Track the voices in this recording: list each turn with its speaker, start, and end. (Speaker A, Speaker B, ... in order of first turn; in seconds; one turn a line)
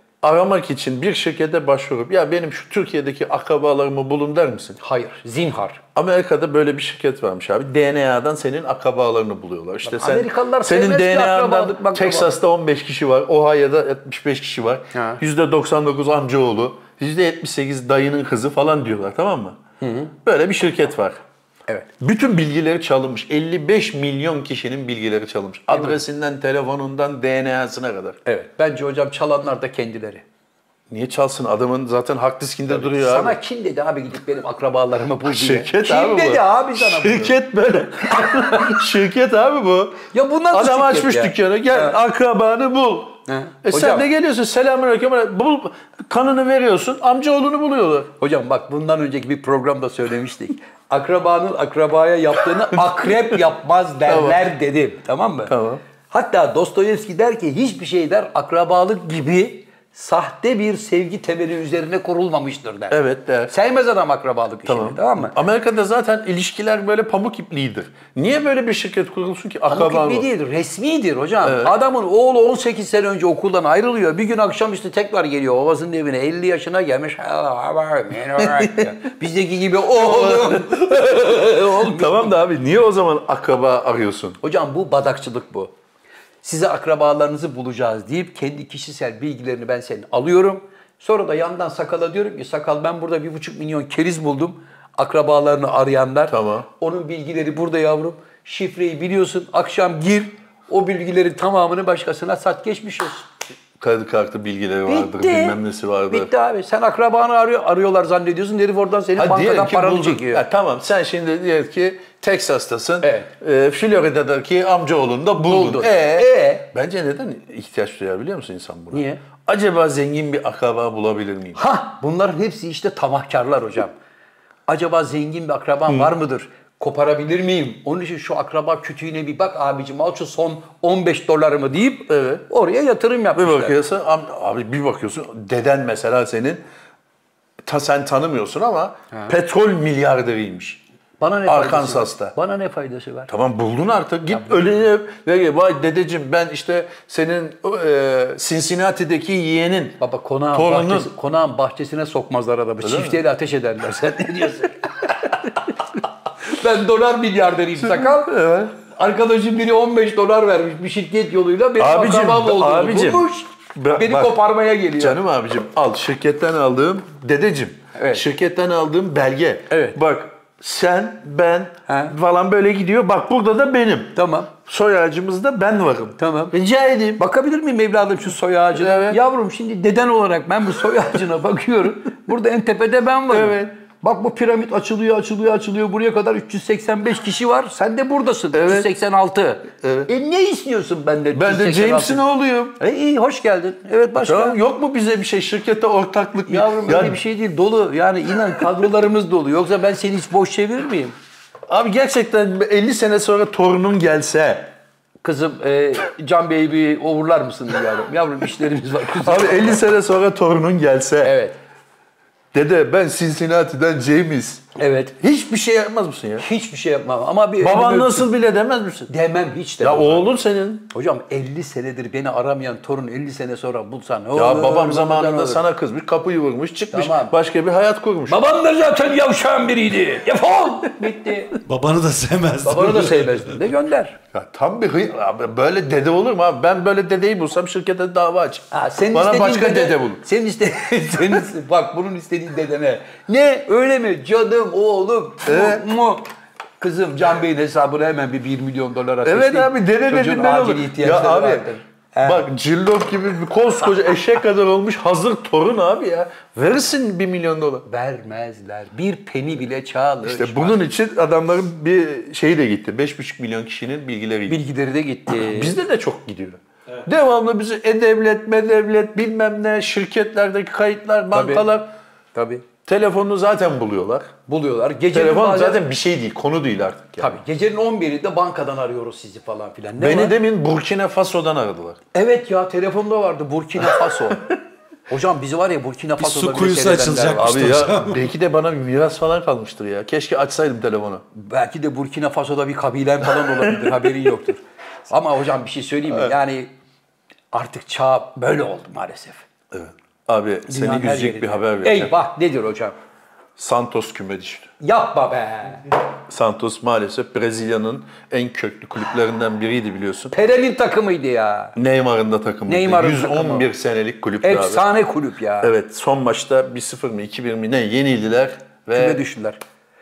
Speaker A: 0.2-4.8
Speaker B: 4.8-5.8
Speaker A: 5.9-19.6
Speaker B: 9.8-12.3
Speaker B: 14.9-15.2
Speaker B: 19.8-20.1
Speaker A: 20.1-21.2
Speaker A: 22.0-28.2
Speaker B: 25.7-26.0
Speaker B: 28.2-30.2
Speaker A: 30.9-33.4
Speaker B: 32.7-37.4
Speaker A: 35.2-48.1
Speaker B: 38.2-38.8
Speaker B: 40.1-42.0
Speaker B: 43.3-44.1
Speaker B: 48.2-55.5
Speaker A: 52.6-53.4
Speaker A: 54.1-54.4
Speaker A: 55.5-55.8
Speaker B: 56.1-65.3
Speaker A: 62.9-63.5
Speaker A: 64.7-70.3
Speaker B: 69.7-82.4
Speaker A: 71.4-71.7
Speaker A: 78.4-78.9
Speaker A: 79.9-84.4
Speaker B: 84.4-85.7
Speaker B: 86.4-103.3
Speaker A: 96.3-96.7
Speaker A: 103.8-106.3
Speaker B: 104.8-105.6
Speaker B: 106.1-110.4
Speaker A: 109.2-121.6
Speaker B: 113.0-113.3
Speaker B: 115.4-116.7
Speaker B: 118.9-119.2
Speaker B: 121.5-123.9
Speaker B: 124.7-133.8
Speaker A: 125.9-126.1
Speaker A: 132.1-132.4
Speaker A: 133.3-136.6
Speaker A: 137.6-140.8
Speaker B: 141.2-143.3
Speaker A: 141.4-142.3
Speaker A: 143.3-150.0
Speaker B: 150.0-155.8
Speaker A: 150.5-151.1
Speaker A: 152.8-153.2
Speaker B: 156.4-165.2
Speaker A: 157.8-158.7
Speaker A: 161.8-164.4
Speaker A: 165.0-177.2
Speaker B: 167.9-168.2
Speaker B: 169.7-170.0
Speaker B: 171.9-172.1
Speaker B: 174.1-174.5
Speaker B: 176.2-176.5
Speaker B: 177.2-192.2
Speaker A: 178.7-179.2
Speaker A: 183.3-183.7
Speaker A: 188.5-188.9
Speaker A: 189.7-190.1
Speaker A: 191.3-192.8
Speaker B: 192.8-194.6
Speaker A: 194.2-197.2
Speaker B: 196.5-201.1
Speaker A: 201.7-204.7
Speaker B: 205.2-209.8
Speaker A: 209.2-211.4
Speaker B: 211.2-211.6
Speaker A: 212.5-214.7
Speaker B: 214.8-215.2
Speaker A: 215.2-216.4
Speaker B: 216.4-218.3
Speaker A: 217.6-219.1
Speaker B: 219.1-220.3
Speaker A: 219.8-220.9
Speaker B: 220.9-225.6
Speaker A: 224.3-228.4
Speaker B: 226.9-227.3
Speaker B: 228.3-231.6
Speaker C: 231.6-233.6
Speaker B: 232.6-234.2
Speaker A: 234.3-240.2
Speaker B: 238.7-246.2
Speaker A: 245.4-245.8
Speaker B: 246.8-252.4
Speaker A: 249.2-251.7
Speaker A: 252.2-257.9
Speaker B: 257.9-260.8
Speaker A: 260.2-264.6
Speaker B: 264.5-265.8
Speaker A: 265.3-271.9
Speaker B: 271.3-271.7
Speaker B: 272.3-272.6
Speaker A: 272.8-274.3
Speaker B: 274.5-275.8
Speaker A: 275.1-277.4
Speaker B: 277.2-280.4
Speaker A: 280.0-282.0
Speaker B: 282.1-284.5
Speaker A: 283.8-284.4
Speaker B: 285.1-287.7
Speaker C: 286.2-288.3
Speaker A: 287.4-291.2
Speaker B: 291.3-296.7
Speaker A: 293.4-294.0
Speaker B: 297.5-299.4
Speaker A: 299.7-302.1
Speaker B: 300.7-302.9
Speaker A: 303.6-304.7
Speaker B: 304.8-305.9
Speaker A: 306.3-310.3
Speaker B: 310.3-311.8
Speaker A: 311.8-314.9
Speaker B: 312.7-313.7
Speaker B: 314.4-315.7
Speaker A: 315.6-319.2
Speaker B: 318.9-319.6